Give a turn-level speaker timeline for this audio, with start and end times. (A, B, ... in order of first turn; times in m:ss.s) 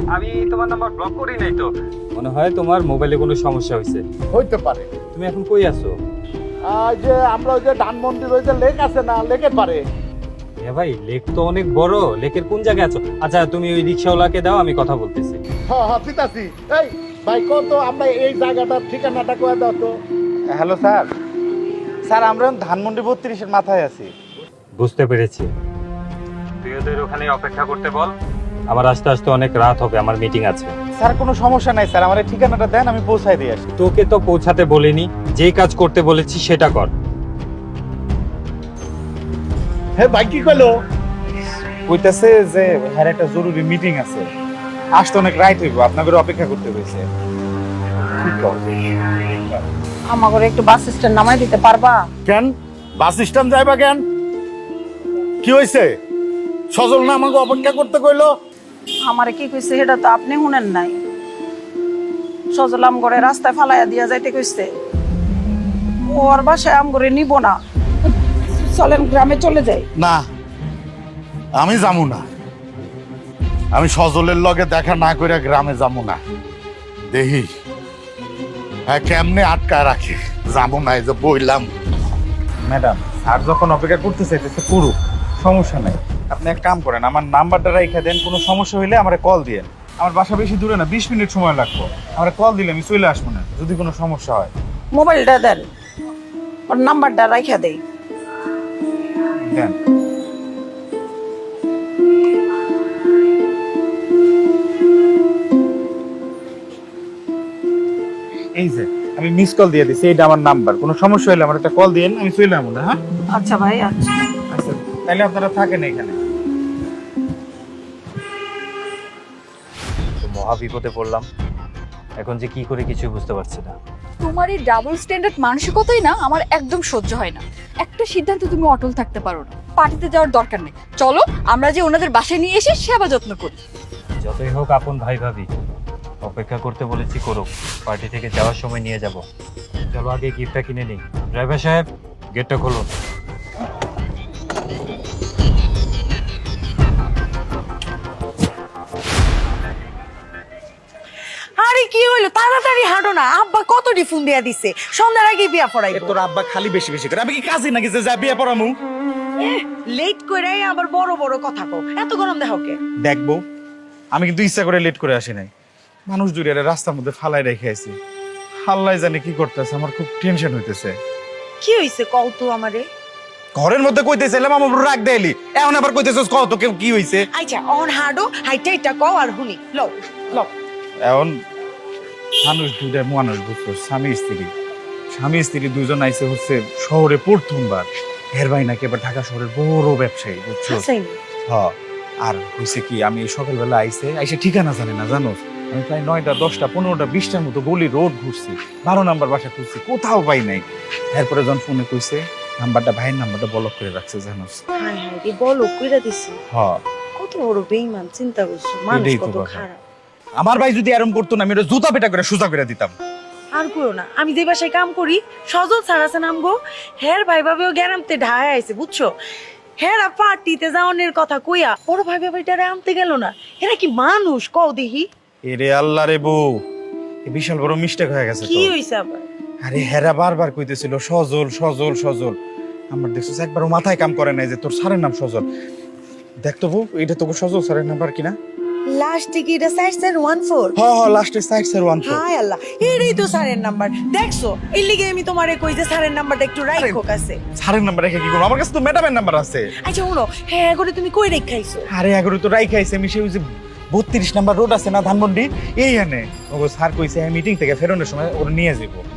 0:00.1-0:04.0 A
0:04.3-0:04.9 B
0:05.1-0:06.0 A
0:06.7-0:09.8 B
0:10.6-0:15.4 A
0:15.7-0:20.0 B
0:20.5-0:21.1 C
0:22.1-0:24.1 C
0:24.8-0:25.5 A
0:26.6-0:28.1 A
0:28.7-0:30.8 A
0:31.0-0:33.7 C
0:33.8-0:36.9 A
0:40.0-0:40.7 B
0:41.8-0:44.3 C
0:45.0-0:47.1 C
0:48.1-0:48.8 C
0:50.1-0:52.0 D
0:52.3-0:54.0 B
0:55.4-0:55.9 B
0:56.7-0:58.3 B
0:59.1-1:01.0 D
1:02.5-1:04.7 D
1:06.1-1:07.6 D
1:08.5-1:09.9 D
1:10.0-1:10.2 B
1:11.6-1:12.3 B
1:13.7-1:16.2 B
1:17.1-1:17.5 B
1:18.9-1:21.7 B
1:22.7-1:34.5 C
1:34.9-1:35.7 D
1:36.7-1:37.8 D
1:39.5-1:39.8 C
1:48.6-1:53.0 C
1:53.4-1:54.2 D
1:54.5-1:56.2 C
2:00.2-2:01.3 A
2:02.2-2:03.8 A
2:04.2-2:13.6 E
2:14.2-2:15.6 A
2:16.2-2:19.2 A
2:19.9-2:22.9 A
2:31.6-2:36.2 F
2:35.9-2:38.7 C
2:39.4-2:42.8 F
2:43.0-2:43.4 C
2:44.1-2:45.5 C
2:46.1-2:48.0 C
2:48.6-2:51.0 C
2:51.6-2:52.8 F
2:53.6-2:57.3 C
2:57.3-3:00.5 F
3:01.0-3:01.4 C
3:02.4-3:04.5 C
3:05.1-3:10.9 C
3:10.7-3:11.2 F
3:11.5-3:24.6 C
3:24.8-3:26.4 F
3:26.5-3:26.8 C
3:27.2-3:29.8 F
3:28.9-3:29.7 C
3:30.4-3:33.0 C
3:33.5-3:39.1 F
3:39.8-3:45.1 F
3:45.4-3:46.6 C
3:47.2-3:48.7 C
3:48.4-3:49.2 F
3:49.6-3:52.4 C
3:52.9-3:55.4 C
3:56.4-3:58.4 C
3:58.9-4:00.7 F
4:00.8-4:02.3 C
4:02.0-4:07.4 F
4:07.6-4:09.7 C
4:09.8-4:11.9 F
4:11.9-4:19.0 C